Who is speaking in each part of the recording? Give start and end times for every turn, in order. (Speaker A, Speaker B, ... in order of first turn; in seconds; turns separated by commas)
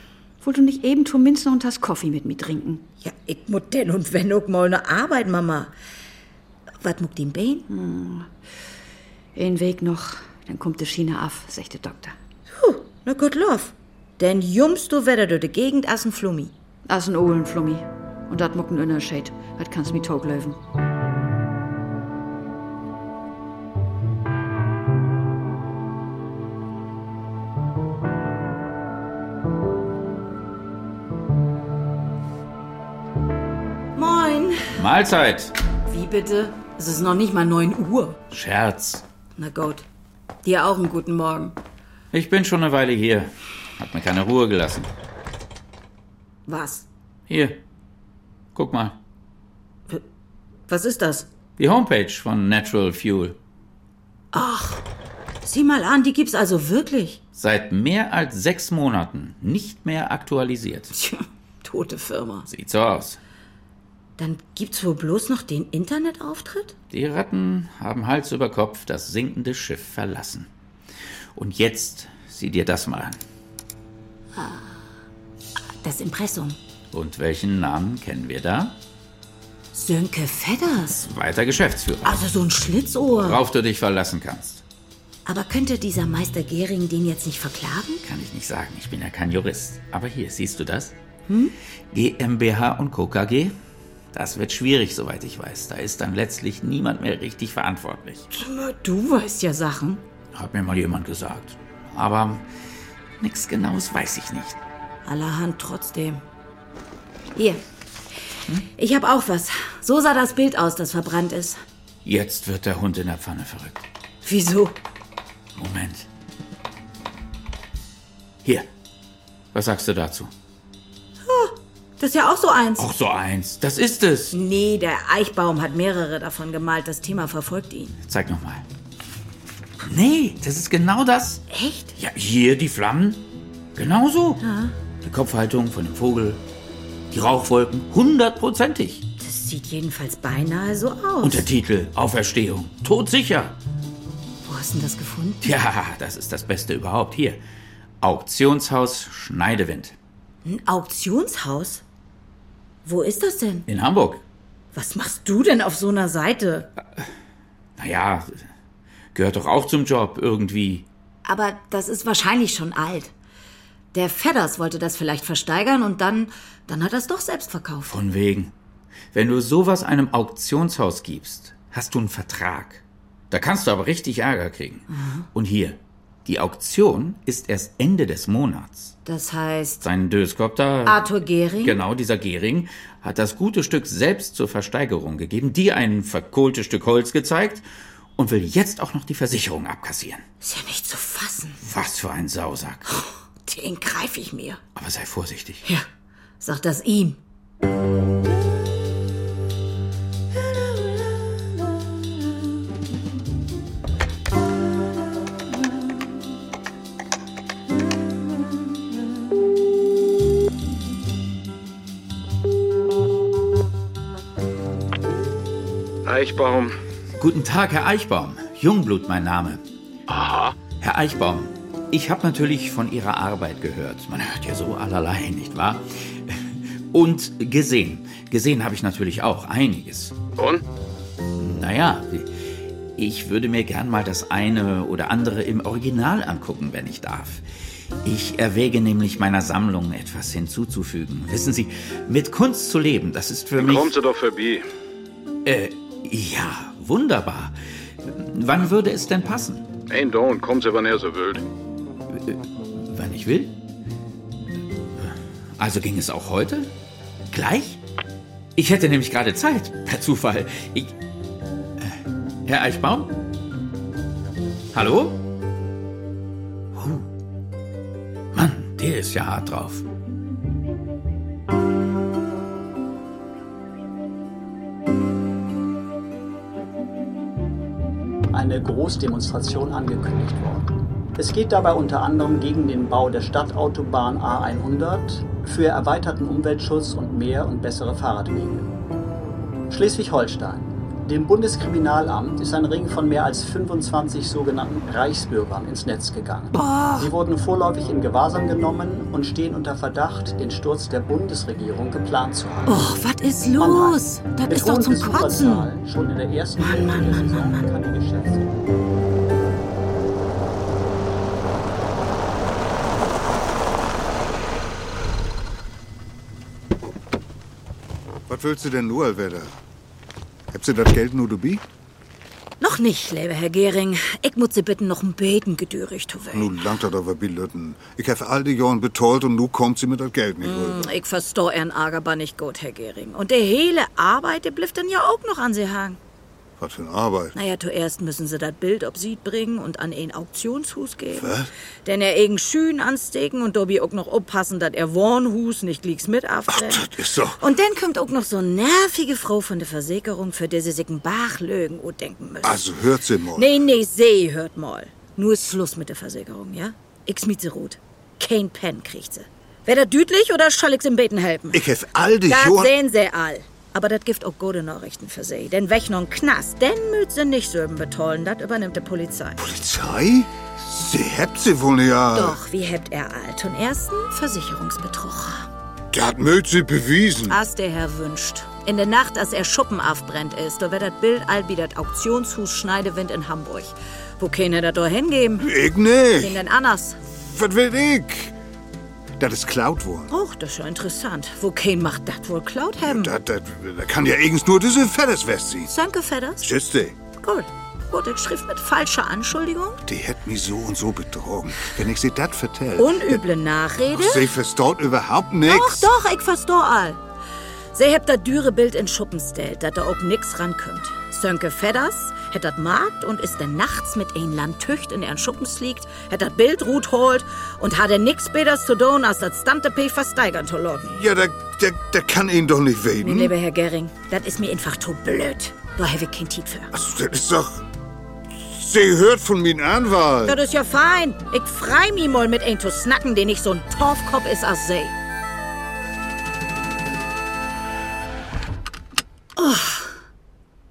Speaker A: 0.4-2.8, Speaker B: 3.0-5.7, Speaker B: 6.8-7.7, Speaker A: 7.7-8.3, Speaker A: 9.3-12.2, Speaker B: 12.5-16.5, Speaker A: 16.9-20.6, Speaker B: 34.0-34.7, Speaker C: 34.7-35.5, Speaker B: 35.9-38.2, Speaker C: 38.3-39.0, Speaker B: 39.4-39.9, Speaker B: 40.4-41.5, Speaker C: 42.1-44.9, Speaker B: 46.5-46.9, Speaker C: 47.3-47.6, Speaker C: 48.5-49.0, Speaker B: 50.7-51.3, Speaker C: 51.6-53.4, Speaker B: 54.3-54.8, Speaker B: 55.4-57.2, Speaker C: 57.4-60.9, Speaker B: 60.9-62.5, Speaker C: 62.5-63.2, Speaker B: 64.2-66.7, Speaker C: 66.9-70.5, Speaker C: 71.3-73.2, Speaker B: 74.3-74.8, Speaker B: 75.8-76.6, Speaker C: 76.9-78.8, Speaker B: 79.7-81.1, Speaker C: 81.1-82.2, Speaker B: 82.0-83.4, Speaker C: 83.1-84.6, Speaker B: 85.2-88.0, Speaker C: 88.0-90.9, Speaker B: 91.3-91.5, Speaker C: 91.9-93.5, Speaker C: 94.1-98.3, Speaker B: 98.3-100.0, Speaker C: 100.3-102.5, Speaker C: 103.2-104.6, Speaker B: 105.0-106.2, Speaker B: 107.3-107.6, Speaker B: 108.8-111.6, Speaker C: 112.0-113.8, Speaker B: 114.2-114.8, Speaker C: 115.5-116.1, Speaker C: 119.5-120.3, Speaker B: 121.2-122.9, Speaker C: 122.8-124.3, Speaker B: 124.3-128.0, Speaker C: 128.1-128.6, Speaker C: 129.8-131.4, Speaker B: 131.5-131.9, Speaker C: 131.9-134.4, Speaker B: 134.4-134.7, Speaker C: 135.0-136.4, Speaker C: 137.1-139.1, Speaker B: 139.2-141.4, Speaker C: 141.2-143.6, Speaker B: 144.4-145.5, Speaker C: 145.4-147.4, Speaker C: 148.0-149.9, Speaker B: 150.4-151.8, Speaker B: 152.8-153.7, Speaker C: 153.7-154.2, Speaker B: 154.7-156.7, Speaker C: 157.8-158.4, Speaker C: 159.1-160.9, Speaker B: 161.2-163.1, Speaker B: 163.9-167.9, Speaker C: 167.9-168.5, Speaker C: 169.1-178.9, Speaker B: 174.9-175.3, Speaker B: 179.0-179.8, Speaker C: 179.8-187.6, Speaker B: 180.8-181.8, Speaker C: 188.2-190.2, Speaker B: 190.4-191.6, Speaker C: 191.6-192.9, Speaker B: 192.9-194.6, Speaker C: 194.8-195.6, Speaker B: 196.4-197.2, Speaker D: 216.0-216.8, Speaker C: 217.2-219.6, Speaker D: 220.1-220.5, Speaker C: 220.8-230.2, Speaker D: 230.4-230.6, Speaker C: 231.4-232.4, Speaker C: 232.9-237.4, Speaker C: 238.0-243.9, Speaker D: 243.6-244.7, Speaker C: 245.4-249.7, Speaker D: 249.9-251.5, Speaker C: 252.1-253.5, Speaker C: 255.0-256.7, Speaker C: 257.3-257.8, Speaker C: 258.6-260.9, Speaker C: 261.8-263.1, Speaker C: 264.7-265.2, Speaker C: 266.7-267.1, Speaker C: 268.3-269.8, Speaker E: 278.3-288.7, Speaker E: 289.7-302.9, Speaker B: 296.5-297.1, Speaker B: 302.7-305.7, Speaker E: 303.6-308.5, Speaker B: 306.6-307.7, Speaker F: 318.3-319.5, Speaker F: 320.5-321.6, Speaker B: 322.6-326.5, Speaker F: 326.3-330.9, Speaker B: 330.4-336.0, Speaker F: 336.6-337.3, Speaker B: 337.3-341.3, Speaker F: 341.1-341.5, Speaker B: 341.8-352.6, Speaker F: 346.5-347.4, Speaker F: 352.4-353.5, Speaker B: 353.3-361.6, Speaker F: 361.5-362.7, Speaker B: 362.3-369.4, Speaker F: 369.4-372.4, Speaker B: 372.1-375.5, Speaker F: 375.9-377.4, Speaker B: 377.3-385.5, Speaker F: 385.4-386.4, Speaker B: 386.2-387.0, Speaker F: 387.3-388.3, Speaker F: 389.2-390.1, Speaker B: 390.1-393.1, Speaker F: 392.8-395.7, Speaker B: 395.7-396.5, Speaker F: 396.4-396.9, Speaker B: 397.2-399.8, Speaker F: 399.9-403.2, Speaker B: 402.8-404.3, Speaker F: 403.9-405.9, Speaker B: 405.4-407.0, Speaker B: 407.7-420.9, Speaker F: 420.9-423.3, Speaker B: 423.0-426.7, Speaker F: 426.7-427.6, Speaker F: 428.4-430.4, Speaker B: 430.2-434.9, Speaker B: 439.4-440.0